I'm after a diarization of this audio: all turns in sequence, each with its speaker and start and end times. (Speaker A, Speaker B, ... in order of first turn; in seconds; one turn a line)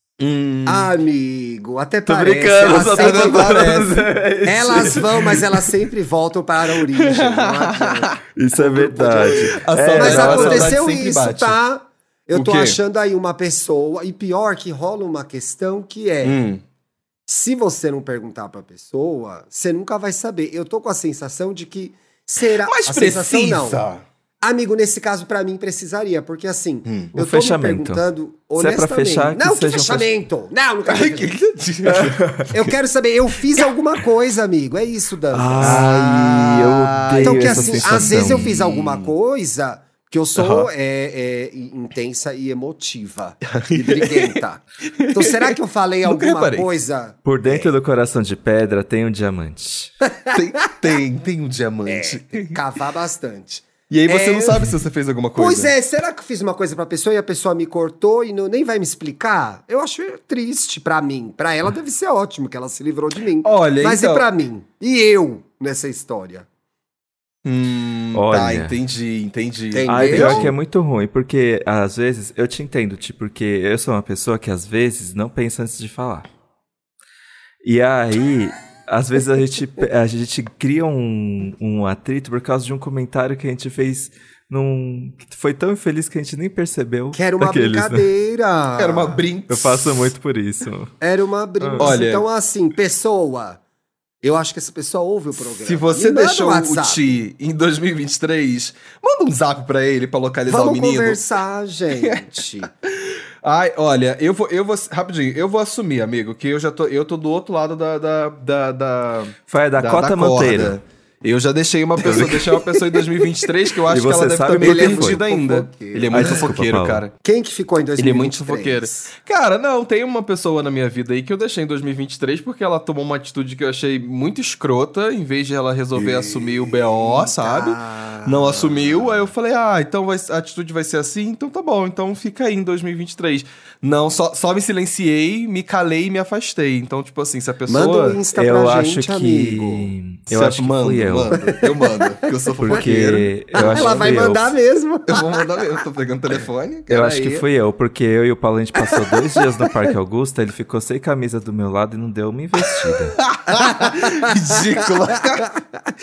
Speaker A: 0.2-0.9
Speaker B: 0.7-3.7
Speaker C: 2.1-5.7
Speaker A: 2.7-4.1
Speaker B: 4.5-16.4
Speaker A: 6.9-8.2
Speaker C: 8.4-10.8
Speaker A: 9.0-11.6
Speaker A: 12.3-12.8
Speaker A: 16.2-16.6
Speaker B: 17.3-23.9
Speaker A: 22.6-24.0
Speaker B: 24.4-31.3
Speaker A: 26.9-27.1
Speaker C: 27.1-28.1
Speaker C: 28.6-30.1
Speaker A: 30.9-32.5
Speaker C: 31.9-32.5
Speaker B: 32.5-36.1
Speaker C: 35.3-38.5
Speaker A: 35.6-39.1
Speaker B: 37.2-47.7
Speaker A: 40.4-40.7
Speaker A: 43.5-44.4
Speaker A: 45.0-46.7
Speaker C: 47.2-49.9
Speaker A: 50.3-52.6
Speaker B: 51.9-54.8
Speaker A: 53.9-55.7
Speaker B: 55.4-66.5
Speaker A: 63.4-64.3
Speaker A: 67.5-70.5
Speaker C: 68.2-68.8
Speaker B: 69.7-70.5
Speaker C: 69.9-76.3
Speaker C: 77.6-88.1
Speaker B: 87.1-89.2
Speaker A: 88.8-90.1
Speaker C: 89.5-90.9
Speaker B: 91.0-93.6
Speaker C: 91.6-92.0
Speaker A: 91.8-92.3
Speaker B: 94.2-97.1
Speaker A: 95.4-101.2
Speaker B: 100.5-102.7
Speaker A: 102.0-102.3
Speaker A: 102.8-117.1
Speaker C: 109.5-110.8
Speaker B: 112.7-113.0
Speaker C: 113.9-115.2
Speaker B: 114.6-116.5
Speaker C: 116.1-117.0
Speaker B: 117.2-119.1
Speaker A: 118.0-138.2
Speaker B: 125.9-129.2
Speaker B: 137.7-139.9
Speaker C: 138.3-141.4
Speaker A: 140.3-144.2
Speaker B: 141.3-142.9
Speaker C: 142.6-144.6
Speaker B: 143.5-145.5
Speaker A: 145.1-147.4
Speaker C: 146.9-153.2
Speaker B: 148.8-149.7
Speaker A: 152.9-155.5
Speaker B: 153.5-155.7